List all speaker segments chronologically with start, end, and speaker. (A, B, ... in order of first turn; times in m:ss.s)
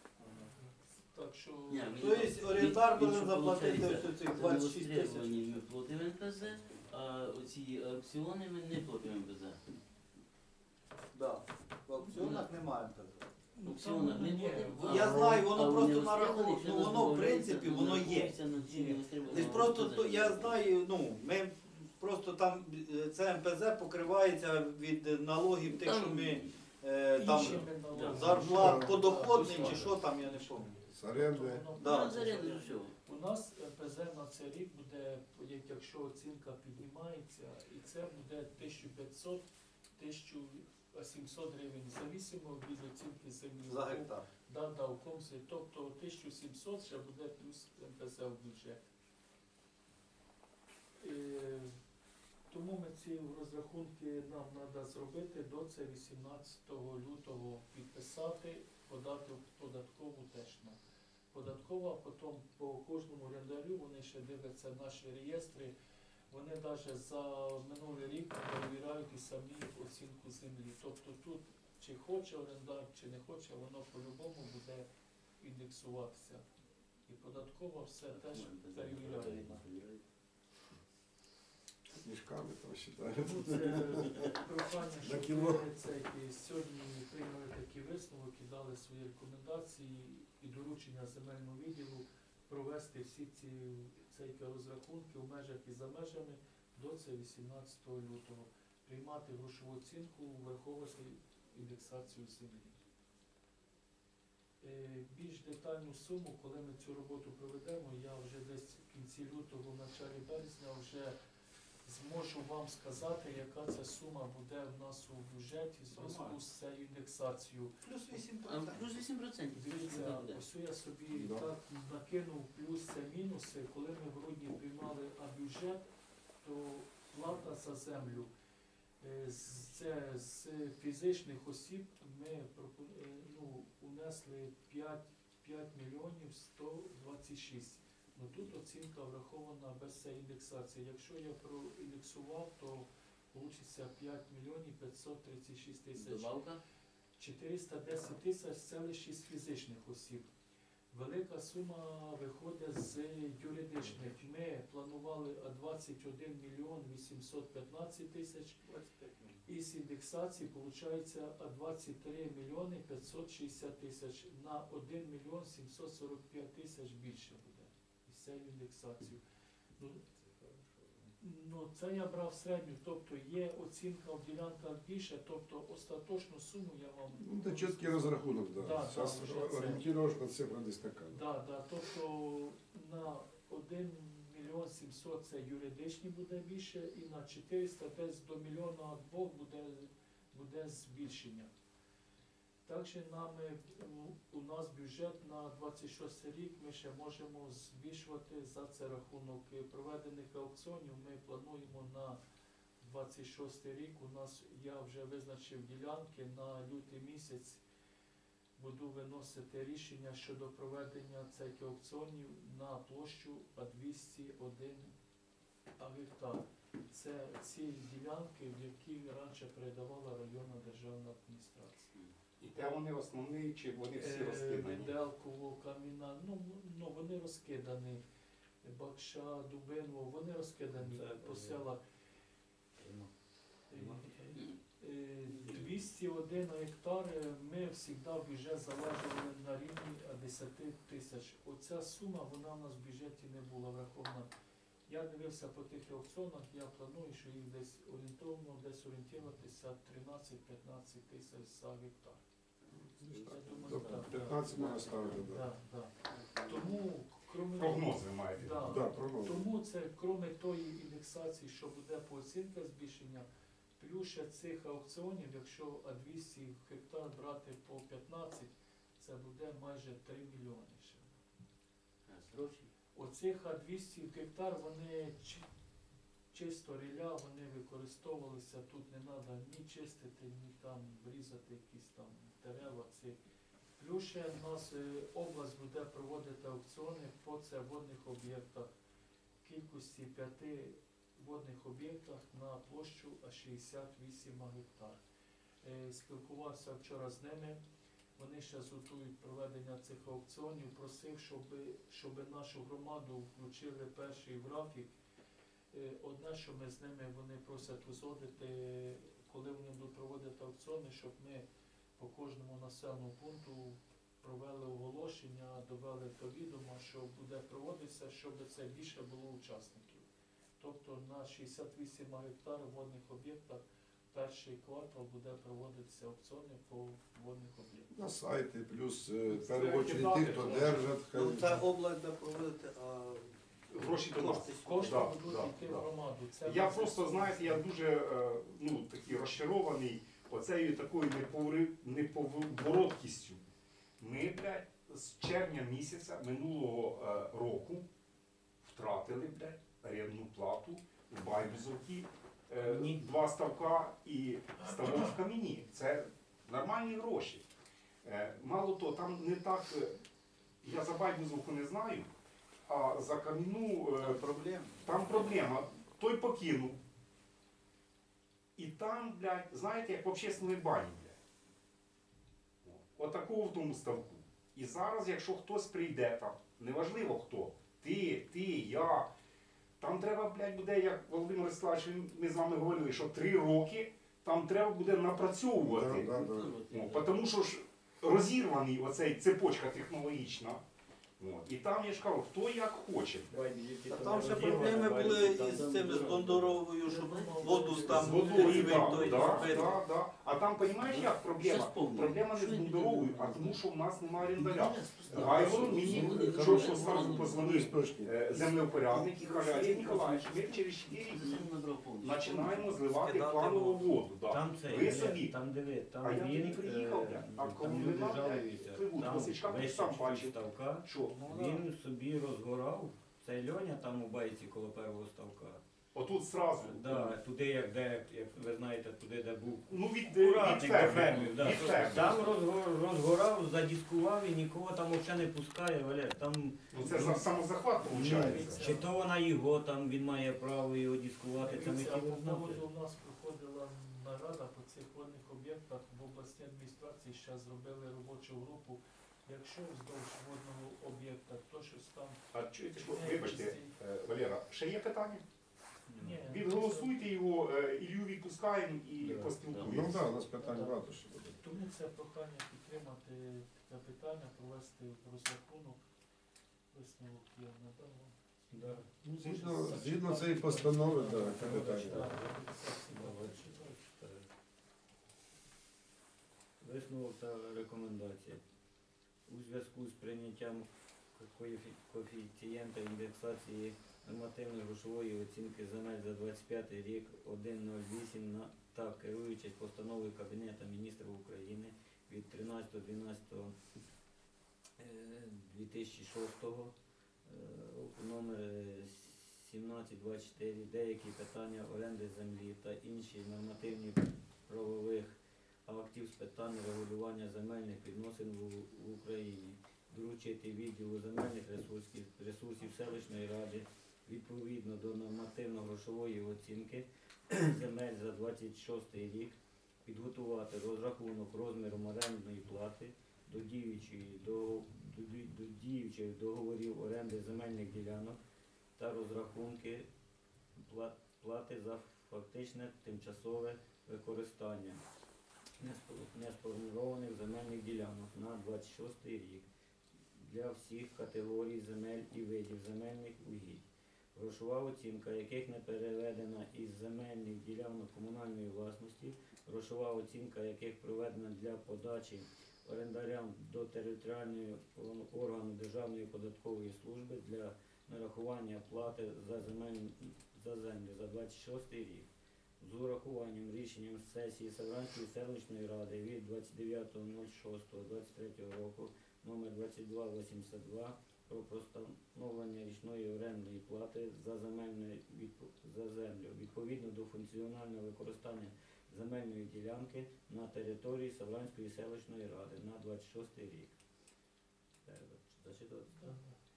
0:00.2-0:00.5 A
0:00.4-0:02.5 B
0:01.7-0:09.6 C
0:02.0-0:05.6 A
0:11.1-0:13.3 A
0:12.1-0:12.5 C
0:13.5-0:15.2 B
0:13.6-0:20.7 C
0:14.8-0:18.4 A
0:14.9-0:15.4 D
0:18.6-0:19.8 B
0:19.2-0:30.7 A
0:25.6-0:26.6 C
0:27.1-0:39.4 B
0:27.3-0:29.9 C
0:28.4-0:29.0 D
0:30.9-0:31.6 D
0:31.8-0:32.9 C
0:31.8-0:32.4 A
0:40.0-0:48.9 B
0:43.6-0:44.2 A
0:51.0-0:51.8 B
0:52.5-1:00.8 B
1:01.3-1:05.7 B
1:06.3-1:14.9 B
1:15.4-1:16.4 B
1:17.1-1:19.6 B
1:18.1-1:20.0 C
1:22.0-1:24.3 D
1:23.1-1:42.8 B
1:25.0-1:25.7 D
1:44.6-1:51.1 B
1:51.9-1:57.7 B
1:55.9-1:56.4 C
1:57.8-1:58.8 A
1:58.4-2:00.4 C
1:59.5-2:05.9 B
2:01.1-2:01.5 D
2:06.4-2:08.3 B
2:09.0-2:26.4 B
2:26.0-2:26.6 C
2:27.2-2:30.3 B
2:30.9-2:38.6 B
2:39.4-2:49.2 B
2:49.8-2:50.1 B
2:50.4-2:50.8 E
2:51.2-2:59.8 B
2:57.2-3:01.2 D
3:01.1-3:11.5 B
3:12.6-3:22.2 B
3:22.8-3:27.6 B
3:28.6-3:34.9 B
3:35.8-3:41.9 B
3:42.4-3:44.9 F
3:44.0-3:48.0 B
3:48.6-3:51.8 B
3:50.8-3:51.6 E
3:52.8-3:53.1 E
3:53.7-3:54.4 E
3:53.7-4:04.3 B
3:55.3-3:55.7 C
4:04.9-4:12.2 B
4:12.8-4:15.4 D
4:13.0-4:23.3 B
4:13.5-4:15.3 C
4:16.1-4:16.9 C
4:17.6-4:18.7 F
4:18.6-4:19.5 D
4:23.8-4:31.2 B
4:32.1-4:32.7 C
4:33.0-4:35.5 B
4:36.3-4:43.2 B
4:43.8-4:48.7 B
4:49.4-4:55.0 B
4:55.6-4:57.6 B
4:58.2-5:04.9 B
5:05.7-5:11.4 B
5:12.0-5:20.0 B
5:20.6-5:27.9 B
5:27.9-5:31.6 D
5:29.3-5:30.7 B
5:29.6-5:30.8 F
5:31.1-5:33.4 A
5:33.7-5:35.9 F
5:34.1-5:35.0 A
5:34.6-5:37.6 B
5:36.4-5:43.4 F
5:44.0-5:47.8 F
5:48.6-5:57.4 F
5:52.6-5:53.0 E
5:58.0-6:00.0 F
6:00.6-6:02.1 F
6:02.7-6:04.2 F
6:04.0-6:05.5 A
6:04.8-6:06.8 F
6:08.6-6:11.2 F
6:12.6-6:19.1 F
6:19.8-6:26.1 F
6:25.6-6:26.5 D
6:25.9-6:27.1 C
6:26.7-6:30.6 F
6:31.2-6:33.4 F
6:33.3-6:36.3 E
6:33.9-6:39.8 A
6:34.2-6:39.8 C
6:36.8-6:39.3 B
6:37.9-6:51.5 F
6:38.5-6:38.8 E
6:40.6-6:43.6 C
6:44.3-6:47.7 C
6:45.1-6:48.2 D
6:48.3-6:52.8 C
6:49.5-6:49.8 A
6:52.0-6:55.4 F
6:53.0-6:54.0 A
6:54.3-7:05.6 E
6:56.0-7:01.5 F
7:05.9-7:07.2 F
7:06.6-7:17.3 E
7:09.7-7:12.4 F
7:16.7-7:18.8 F
7:16.9-7:17.2 B
7:17.8-7:19.0 B
7:17.8-7:22.6 E
7:21.4-7:32.2 B
7:32.3-7:35.2 F
7:32.7-7:33.8 B
7:35.9-7:36.3 E
7:36.0-7:37.0 B
7:36.3-7:40.2 F
7:39.0-7:39.4 E
7:39.6-7:41.4 D
7:40.2-7:40.8 B
7:41.3-7:45.8 B
7:46.7-7:53.8 B
7:48.5-7:48.8 E
7:49.0-7:52.1 D
7:51.1-7:54.3 E
7:56.6-7:58.4 E
7:59.3-8:13.6 E
8:14.8-8:16.7 E
8:17.2-8:48.2 E
8:48.8-8:49.9 E
8:50.6-8:54.8 E
8:55.6-8:59.5 E
9:00.1-9:22.1 E
9:22.6-9:43.7 E
9:44.8-9:46.2 E
9:45.9-9:46.4 B